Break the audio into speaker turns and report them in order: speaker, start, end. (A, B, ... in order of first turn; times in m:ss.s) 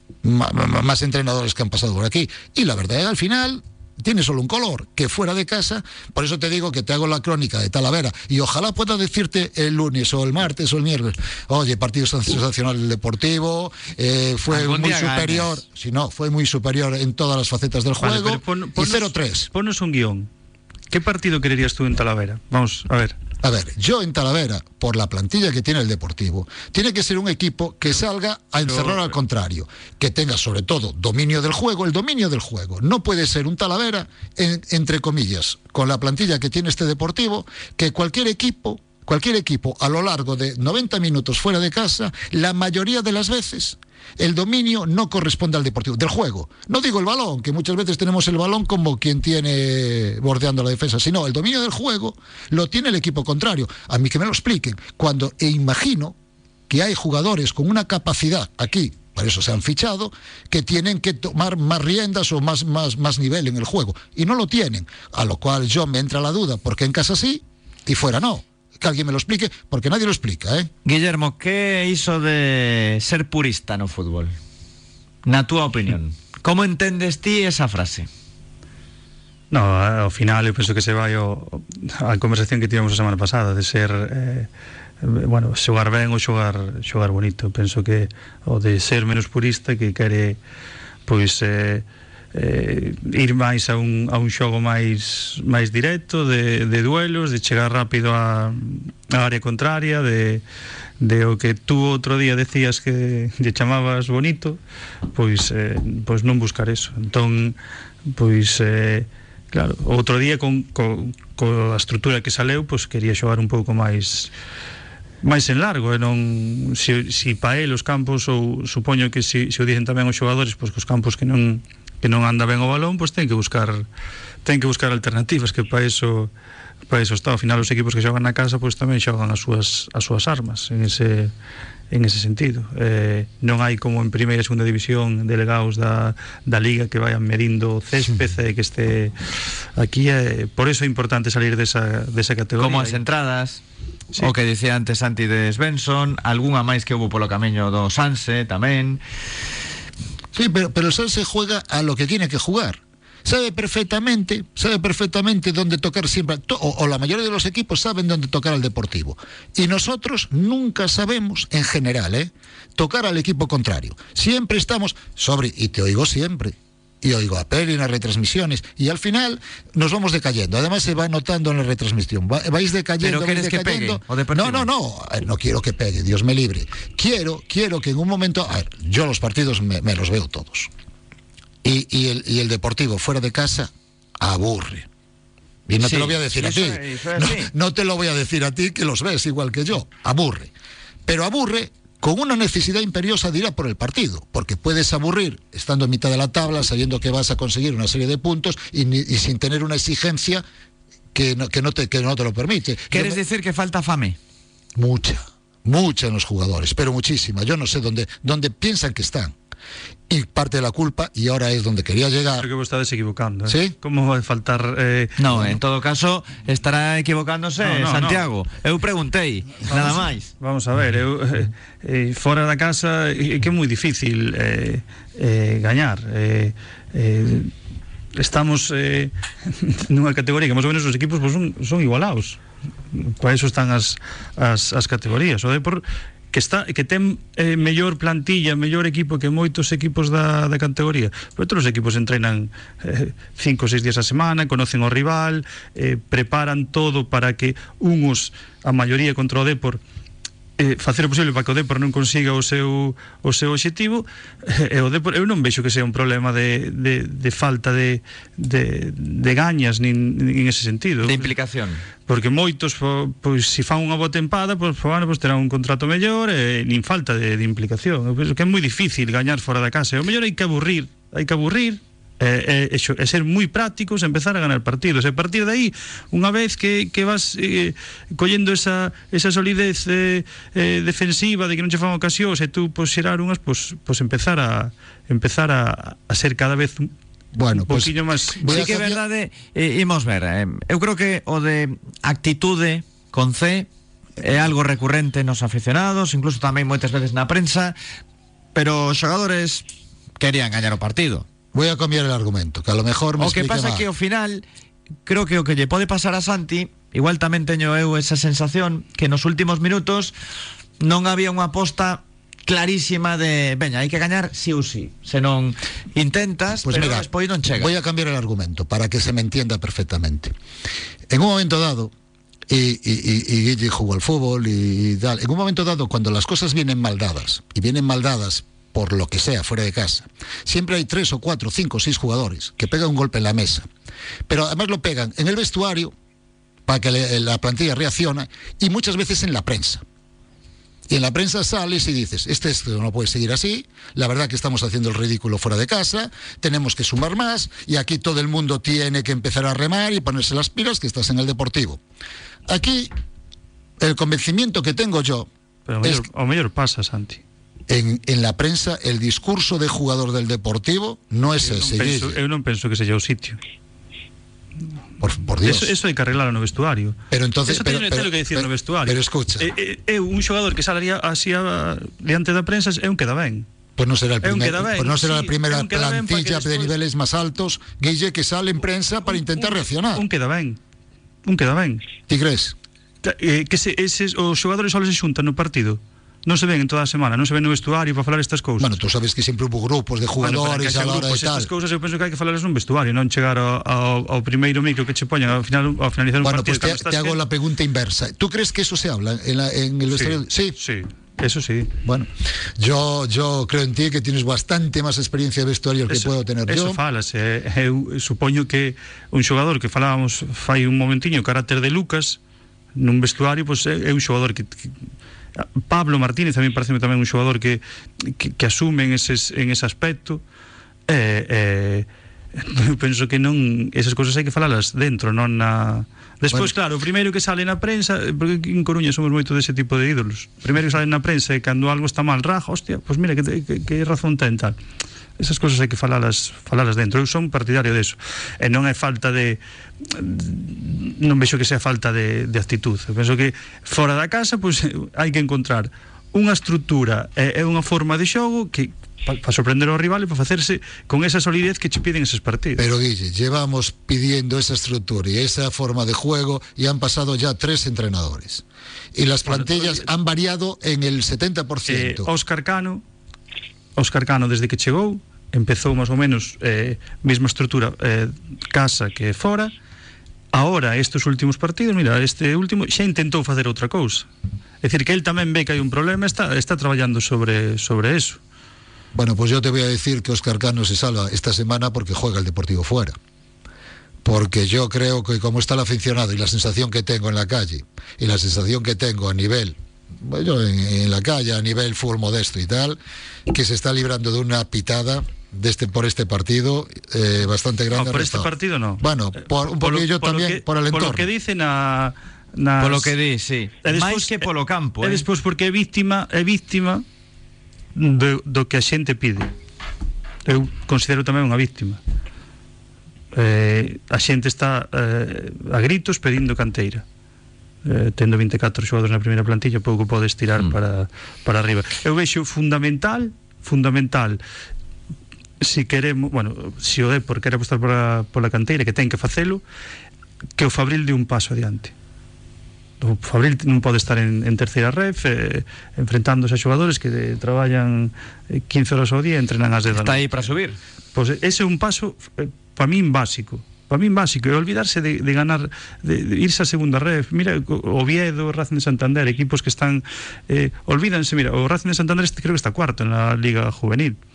0:00.2-0:19.5 A
0:14.5-0:15.6 B
0:18.0-0:20.3 C
0:20.9-0:23.2 C
0:23.4-0:56.2 A
0:28.7-0:29.0 C
0:56.7-1:10.7 A
1:10.8-1:14.3 B
1:15.2-1:18.1 B
1:19.5-1:24.5 C
1:25.0-1:30.4 C
1:31.1-1:40.4 C
1:41.0-1:44.6 C
1:45.2-1:47.6 C
1:48.1-1:54.3 C
1:55.2-2:03.9 C
2:04.4-2:06.3 C
2:06.9-2:11.3 C
2:11.9-2:19.1 C
2:19.8-2:23.0 C
2:22.6-2:23.6 B
2:24.2-2:29.0 B
2:30.3-3:00.7 A
2:53.0-2:54.7 B
3:01.6-3:04.9 A
3:05.7-3:10.5 A
3:05.8-3:07.5 B
3:11.1-3:20.4 A
3:21.1-3:23.2 A
3:22.9-3:24.2 B
3:24.8-3:29.4 A
3:30.1-3:32.5 A
3:32.4-3:35.5 C
3:33.5-3:33.8 A
3:35.2-3:40.3 B
3:37.6-3:38.3 C
3:39.7-3:47.5 C
3:48.2-3:52.4 C
3:52.9-4:09.8 C
4:10.6-4:21.3 C
4:21.0-4:21.8 B
4:22.1-4:46.9 C
4:47.4-4:49.0 A
4:47.5-4:48.4 C
4:48.4-4:53.7 B
4:54.2-4:57.8 B
4:58.6-4:59.6 B
5:00.2-5:01.3 B
5:01.5-5:03.9 A
5:03.2-5:04.4 B
5:05.1-5:10.2 B
5:10.8-5:17.7 B
5:16.6-5:20.3 A
5:21.1-5:21.9 A
5:22.5-5:33.7 A
5:34.3-5:35.9 A
5:36.7-5:39.8 A
5:40.9-5:51.8 A
5:52.5-5:52.9 A
5:53.8-5:55.3 A
5:55.7-5:57.2 C
5:57.7-6:02.2 A
6:01.4-6:03.4 C
6:05.0-6:05.8 A
6:05.4-6:13.5 C
6:07.1-6:09.5 A
6:13.8-6:20.1 A
6:14.2-6:16.7 C
6:19.2-6:20.6 C
6:21.2-6:21.8 C
6:22.1-6:22.6 A
6:23.0-6:28.8 C
6:28.6-6:31.5 A
6:30.2-6:37.2 C
6:36.2-6:40.6 A
6:39.9-6:41.7 C
6:41.8-6:46.8 A
6:45.9-6:52.2 C
6:52.8-6:54.7 C
6:55.4-7:00.2 C
7:00.9-7:14.6 C
7:15.2-7:32.7 C
7:32.6-7:38.4 A
7:39.0-7:42.1 A
7:39.3-7:39.9 C
7:41.7-7:42.8 C
7:43.8-7:49.5 C
7:50.3-7:54.1 C
7:54.6-7:58.2 C
7:58.9-8:03.0 A
8:04.0-8:21.1 A
8:17.7-8:23.0 C
8:22.6-8:25.0 B
8:23.6-8:24.3 C
8:24.8-8:26.8 C
8:27.8-8:29.3 C
8:30.3-8:31.8 C
8:33.1-8:36.8 C
8:37.6-8:44.2 C
8:45.4-8:49.4 C
8:50.4-8:51.7 C
8:52.8-9:00.3 C
8:59.7-9:00.6 B
9:01.0-9:14.0 C